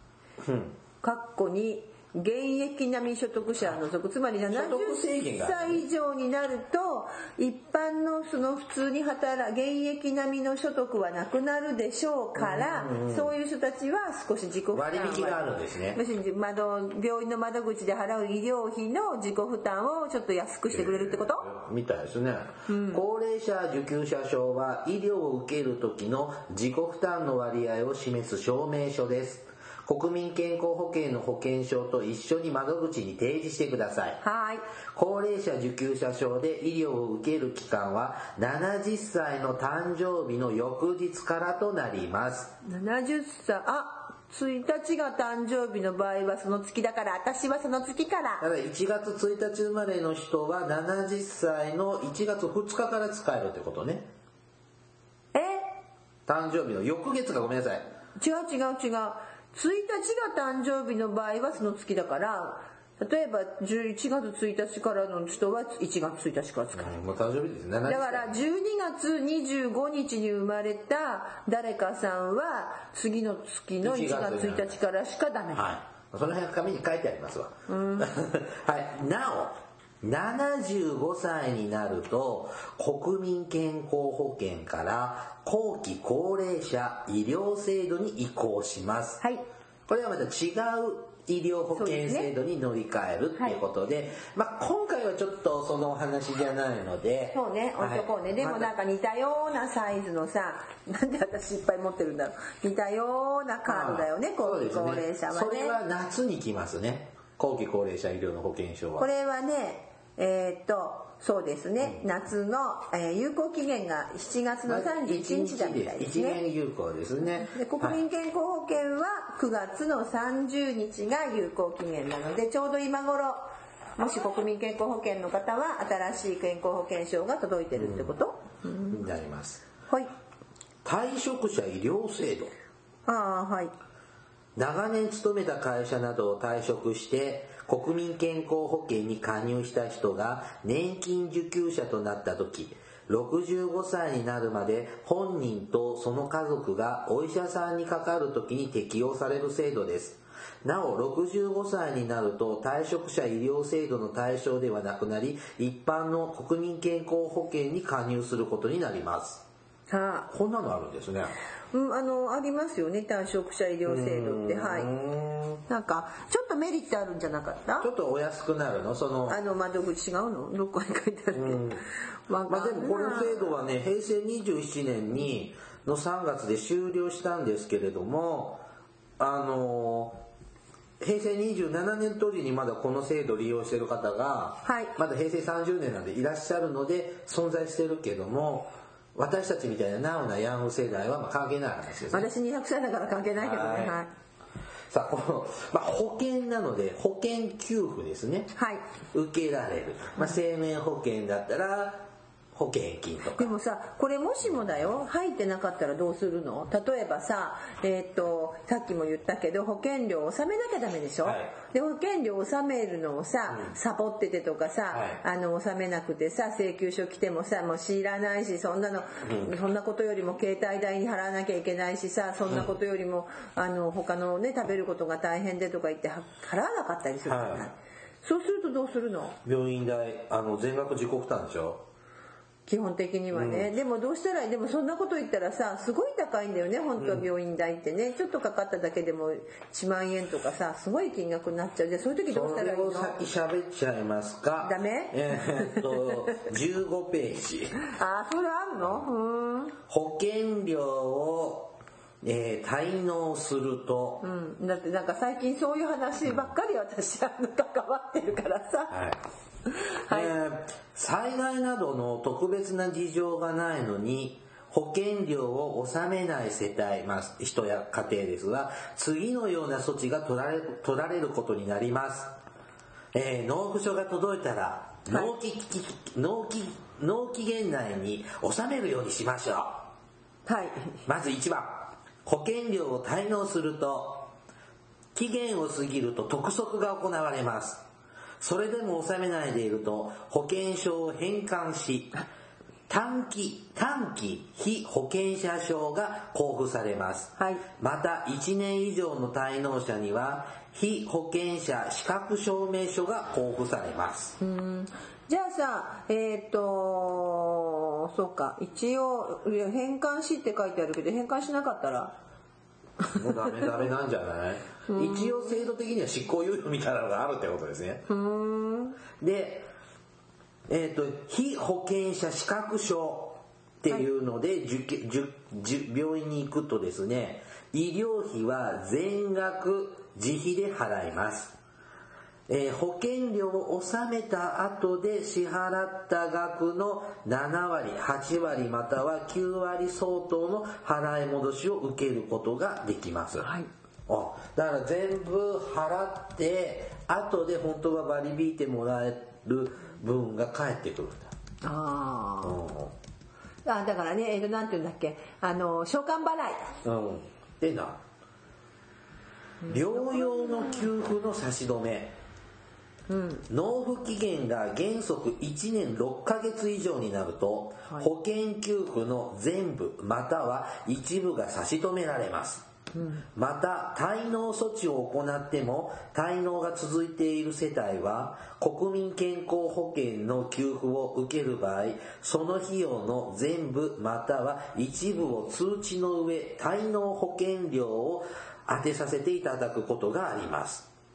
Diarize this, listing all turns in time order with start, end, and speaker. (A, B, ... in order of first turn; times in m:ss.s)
0:00.4-0:00.8 A
0:01.0-0:21.5 B
0:04.5-0:05.8 A
0:12.4-0:13.3 A
0:14.7-0:16.0 A
0:20.7-0:34.2 A
0:22.7-0:23.0 B
0:34.2-0:34.6 B
0:34.9-0:42.5 A
0:42.6-0:48.4 B
0:48.4-0:54.1 A
0:55.3-0:55.7 B
0:56.3-0:57.8 A
0:58.2-1:06.9 B
1:06.7-1:08.4 A
1:07.8-1:15.7 B
1:13.8-1:14.8 A
1:15.5-1:29.2 A
1:17.7-1:18.1 B
1:29.9-1:38.7 A
1:31.8-1:32.3 B
1:37.3-1:45.8 B
1:43.6-1:49.1 A
1:49.0-1:56.4 B
1:54.6-1:58.0 A
1:57.3-2:09.0 B
2:07.8-2:08.1 A
2:08.9-2:09.6 A
2:10.8-2:12.5 A
2:13.0-2:13.7 B
2:14.6-2:39.4 A
2:39.9-2:40.3 B
2:40.3-2:41.4 A
2:41.7-2:44.9 B
2:43.8-2:45.6 A
2:45.7-2:47.9 B
2:47.8-2:49.4 A
2:49.3-2:53.6 B
2:51.3-2:51.8 A
2:52.5-2:58.6 A
2:59.2-3:00.2 A
3:01.0-3:12.3 A
3:04.6-3:04.9 B
3:12.1-3:14.1 B
3:13.4-3:14.0 A
3:14.9-3:18.5 A
3:18.5-3:18.8 B
3:19.1-3:23.5 A
3:23.3-3:49.4 B
3:31.2-3:31.5 A
3:34.9-3:35.2 A
3:39.2-3:39.5 A
3:47.2-3:47.7 A
3:49.4-3:51.8 A
3:52.7-4:03.2 B
3:53.3-3:53.7 A
3:57.0-3:57.3 A
4:02.3-4:07.8 A
4:04.6-4:06.1 B
4:07.9-4:09.8 B
4:09.9-4:14.2 A
4:14.2-4:19.0 B
4:18.9-4:19.2 A
4:19.7-4:20.3 B
4:20.1-4:32.4 A
4:33.1-4:39.9 A
4:35.1-4:35.3 B
4:40.4-4:40.9 B
4:41.0-4:44.3 A
4:45.1-4:47.8 A
4:48.4-4:52.1 A
4:52.9-5:04.4 A
4:57.4-4:57.6 B
5:04.4-5:12.1 B
5:13.1-5:18.0 A
5:14.9-5:15.5 B
5:18.1-5:19.0 B
5:19.2-5:19.7 A
5:20.7-5:31.6 A
5:32.5-5:43.5 A
5:43.4-5:43.7 B
5:44.1-5:51.3 A
5:51.6-5:52.6 B
5:52.4-5:52.9 A
5:53.6-5:56.7 B
5:56.8-5:58.0 A
5:59.6-6:00.8 B
5:59.7-6:02.2 A
6:03.1-6:03.4 B
6:03.5-6:12.6 A
6:12.9-6:13.2 B
6:13.3-6:30.9 A